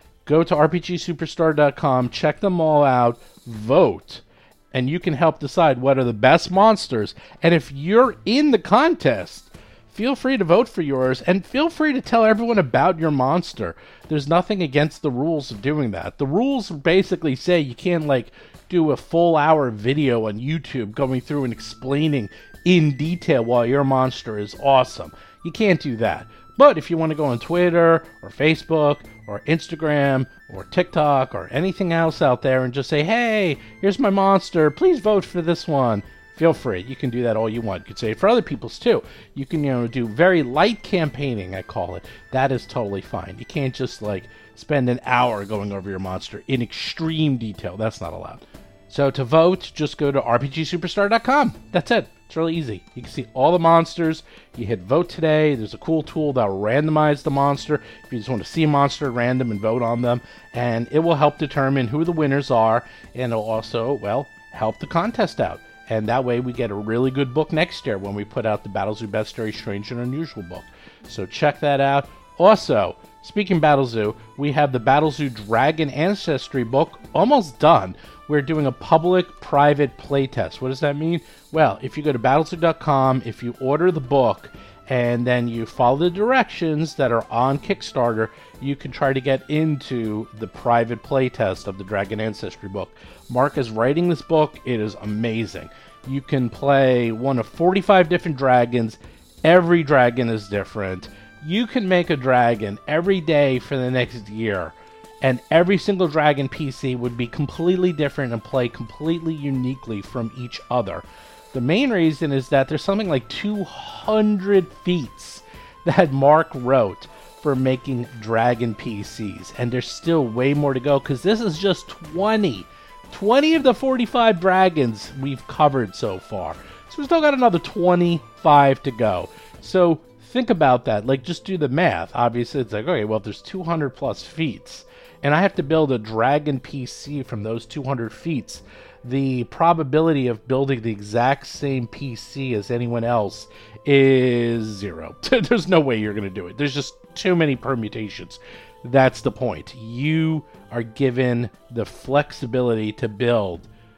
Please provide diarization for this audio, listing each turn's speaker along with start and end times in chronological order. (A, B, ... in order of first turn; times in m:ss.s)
0:00.2-2:33.7 A